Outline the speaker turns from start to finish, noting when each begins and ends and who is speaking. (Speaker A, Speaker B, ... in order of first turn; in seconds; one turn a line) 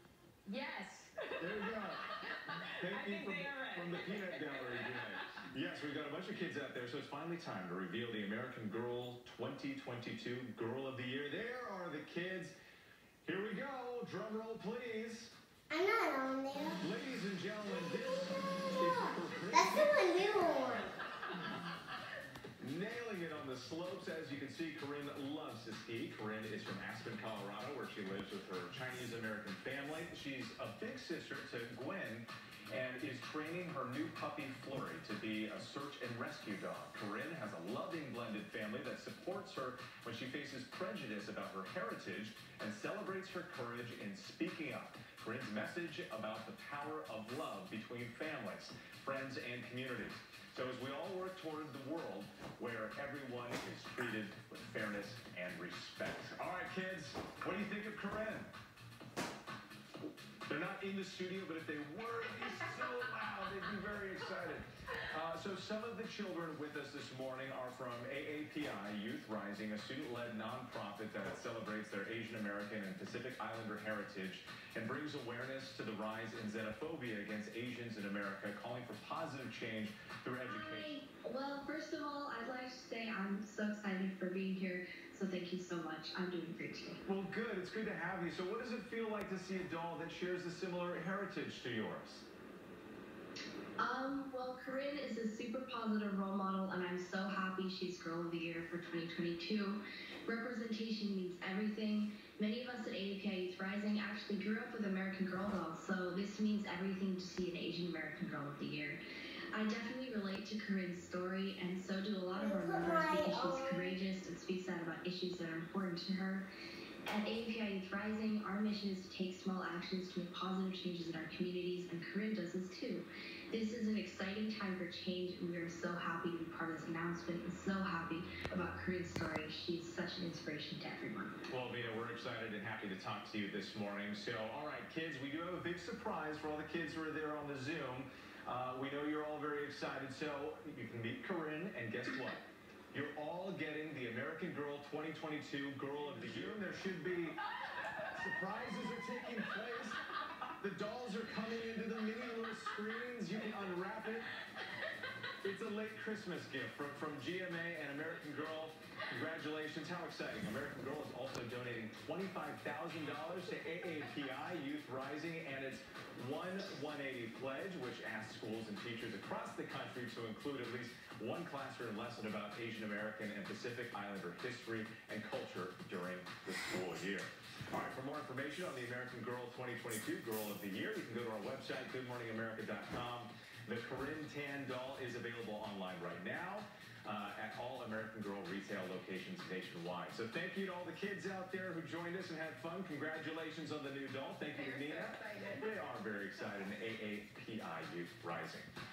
Speaker A: 0.5-5.4
Speaker B: 1.4-2.1
Speaker B: 2.8-12.5
Speaker B: 13.2-15.3
Speaker C: 15.7-16.8
Speaker B: 16.8-20.9
Speaker C: 18.8-20.9
Speaker B: 22.6-58.5
Speaker B: 60.5-80.9
Speaker D: 80.5-87.0
Speaker B: 87.1-92.2
Speaker D: 93.8-109.0
Speaker D: 109.5-116.5
Speaker C: 112.3-114.0
Speaker D: 117.1-131.4
Speaker B: 131.5-147.4
Speaker B: 148.0-150.0
Speaker B: 150.6-154.3
Speaker B: 155.4-198.7
Speaker A: 194.5-195.7